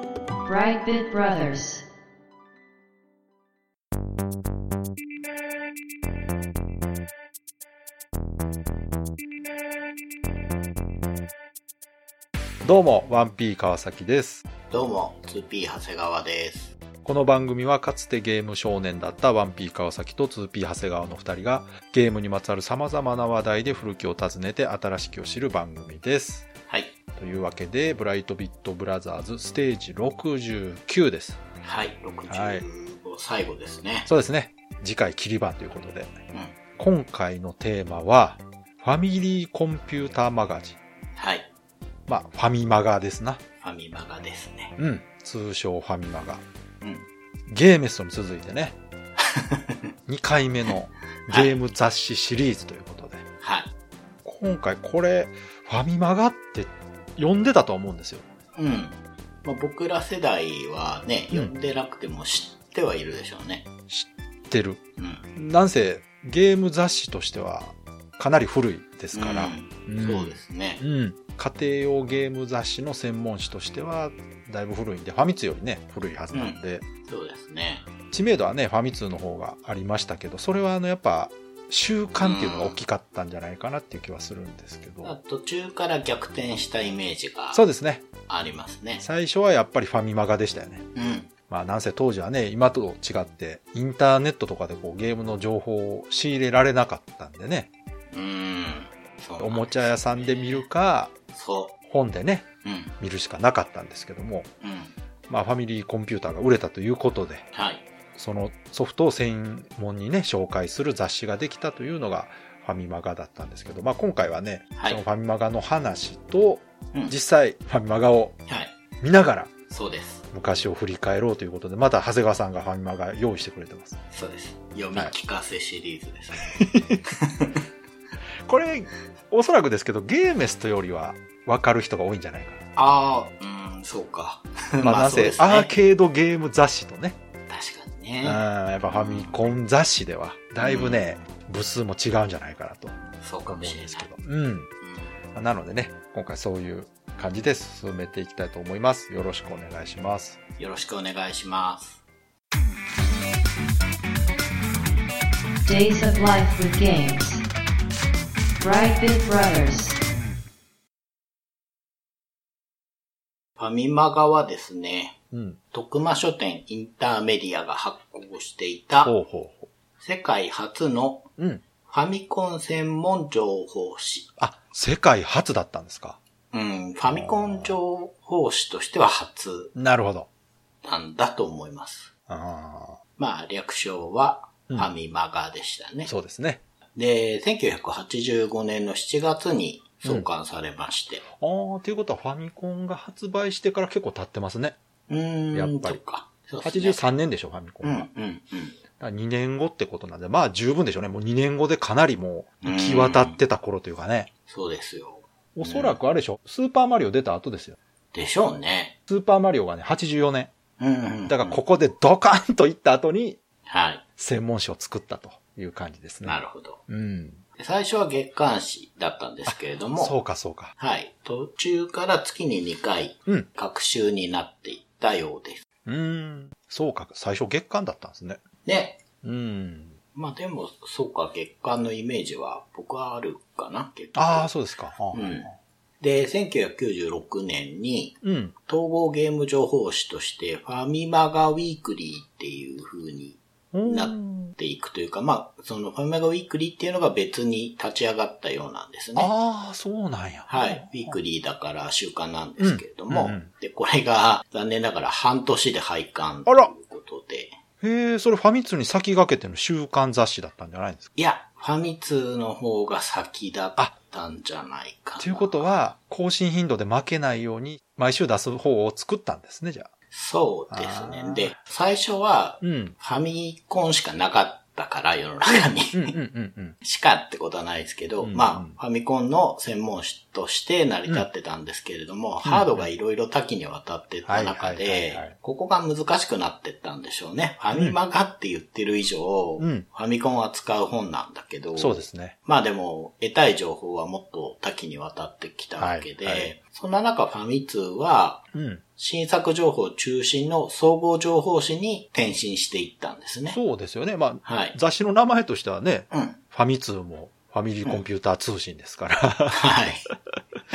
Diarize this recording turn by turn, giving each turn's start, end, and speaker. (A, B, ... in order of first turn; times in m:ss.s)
0:00.4-0:01.9 A
0:12.6-0:14.4 B
0:14.7-0:16.7 C
0:17.0-0:26.5 B
0:27.1-0:31.4 B
0:31.6-0:34.1 C
0:32.3-0:32.6 B
0:34.1-0:36.2 B
0:36.3-0:36.6 C
0:36.8-0:40.8 B
0:41.2-0:41.5 C
0:42.1-0:43.4 B
0:43.6-0:44.8 C
0:44.8-0:46.4 B
0:46.8-0:47.1 C
0:47.5-0:48.8 B
0:49.2-0:49.9 C
0:50.1-0:53.3 B
0:51.3-0:51.6 C
0:53.4-0:53.7 C
0:54.2-0:58.2 B
0:58.6-1:03.7 C
1:03.9-1:04.8 B
1:05.0-1:05.3 C
1:05.4-1:16.8 B
1:09.1-1:10.8 C
1:16.3-1:17.9 C
1:18.1-1:25.2 B
1:22.2-1:22.8 C
1:25.0-1:27.6 C
1:27.5-1:28.1 B
1:28.3-1:29.0 C
1:29.0-1:30.9 B
1:31.0-1:31.3 C
1:31.5-1:37.7 B
1:38.1-1:40.7 C
1:39.4-1:41.2 B
1:41.3-1:41.8 C
1:41.9-1:42.5 B
1:42.6-1:43.0 C
1:43.0-1:44.5 B
1:44.6-1:44.9 C
1:45.3-1:47.5 B
1:47.5-1:47.9 C
1:48.2-1:58.4 B
1:54.8-1:55.0 C
1:58.5-1:58.7 C
1:59.0-1:59.5 B
1:59.7-2:00.3 C
2:00.3-2:04.0 B
2:04.1-2:07.6 C
2:06.6-2:07.0 B
2:08.5-2:12.6 B
2:12.8-2:15.7 C
2:14.8-2:17.2 B
2:17.5-2:19.5 C
2:18.2-2:24.7 B
2:20.6-2:21.0 C
2:23.2-2:24.1 C
2:24.8-2:25.1 C
2:25.3-2:30.4 B
2:30.6-2:32.0 C
2:35.6-2:37.4 A
2:38.6-2:40.0 A
2:43.6-2:45.2 C
2:45.3-2:45.6 B
2:45.7-2:49.1 C
2:49.0-2:49.7 B
2:50.0-2:51.3 C
2:51.4-2:51.6 B
2:51.8-2:54.3 C
2:54.4-2:56.2 B
2:56.5-2:59.8 C
2:57.1-2:57.8 B
2:59.8-3:00.3 B
3:00.8-3:02.1 C
3:02.3-3:03.0 B
3:03.2-3:06.1 C
3:06.1-3:06.6 B
3:07.0-3:11.2 C
3:11.4-3:14.8 B
3:15.1-3:17.1 C
3:15.5-3:16.0 B
3:16.6-3:18.1 B
3:17.8-3:18.8 C
3:19.0-3:24.3 B
3:22.6-3:23.4 C
3:24.5-3:26.0 C
3:25.6-3:27.8 B
3:28.1-3:29.0 C
3:29.1-3:30.5 B
3:30.8-3:31.6 C
3:31.3-3:33.4 B
3:33.7-3:34.0 C
3:34.2-3:37.4 B
3:36.2-3:36.8 C
3:37.6-3:40.1 C
3:39.5-3:40.7 B
3:40.8-3:45.6 C
3:45.9-3:48.4 B
3:48.6-3:49.0 C
3:49.2-3:50.0 B
3:50.2-3:54.5 C
3:54.2-3:55.5 B
3:55.1-3:55.5 C
3:56.0-4:09.3 C
3:58.2-3:58.6 B
4:03.7-4:04.6 B
4:09.2-4:11.2 B
4:10.5-4:17.6 C
4:12.6-4:13.5 B
4:16.5-4:16.7 B
4:17.8-4:21.1 B
4:21.2-4:25.8 C
4:25.2-4:29.9 B
4:30.1-4:36.2 C
4:30.7-4:31.5 B
4:32.6-4:33.0 B
4:35.5-4:36.8 B
4:36.8-5:03.6 C
4:38.2-4:38.8 B
4:42.4-4:42.9 B
4:44.3-4:45.4 B
4:49.6-4:49.9 B
4:51.8-4:52.4 B
4:55.8-4:56.5 B
4:58.5-4:58.8 B
5:03.5-5:09.7 B
5:04.4-5:04.8 C
5:06.1-5:06.4 C
5:09.5-5:10.1 C